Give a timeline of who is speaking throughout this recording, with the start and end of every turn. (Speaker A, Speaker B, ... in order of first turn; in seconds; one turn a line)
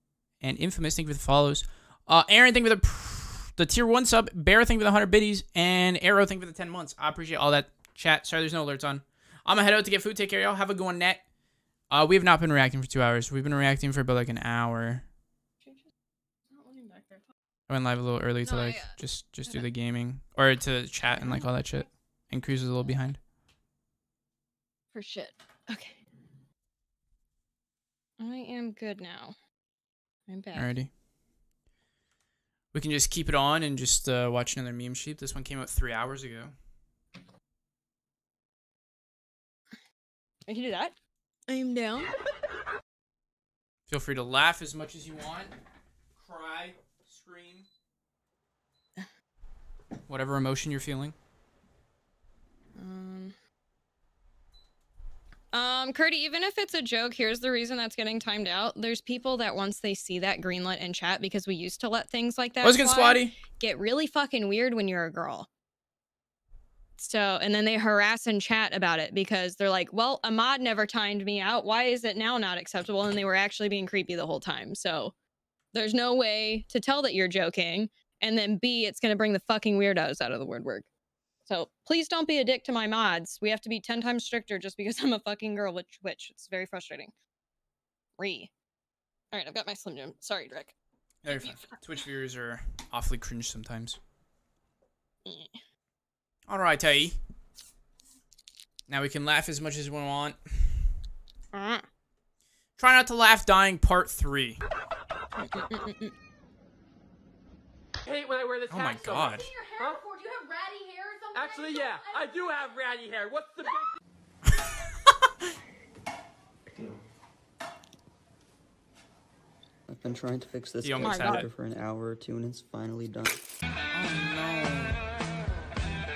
Speaker A: 0.4-11.2
Speaker A: 11.9-15.1
Speaker B: 16.5-17.2
Speaker A: 17.7-23.2
Speaker B: 18.4-18.9
Speaker B: 21.2-21.8
Speaker B: 24.9-26.0
Speaker B: 28.2-29.4
Speaker B: 30.3-30.7
Speaker A: 30.6-30.9
Speaker A: 32.7-36.5
Speaker B: 40.5-40.9
Speaker B: 41.5-42.1
Speaker A: 43.9-45.5
Speaker A: 47.1-47.6
Speaker A: 50.1-51.1
Speaker B: 52.8-53.3
Speaker B: 55.5-65.5
Speaker A: 62.6-63.3
Speaker B: 67.0-75.1
Speaker B: 75.7-80.9
Speaker B: 81.5-87.1
Speaker B: 88.2-88.5
Speaker B: 89.3-90.7
Speaker A: 91.2-94.0
Speaker B: 91.3-91.7
Speaker B: 95.2-95.6
Speaker A: 96.5-97.2
Speaker A: 98.9-100.4
Speaker B: 101.5-101.8
Speaker A: 102.8-104.6
Speaker B: 105.4-106.1
Speaker C: 108.1-110.0
Speaker A: 108.7-109.5
Speaker D: 109.4-112.3
Speaker C: 111.3-113.9
Speaker E: 119.9-123.2
Speaker A: 120.8-121.5
Speaker B: 121.0-121.5
Speaker A: 123.9-125.0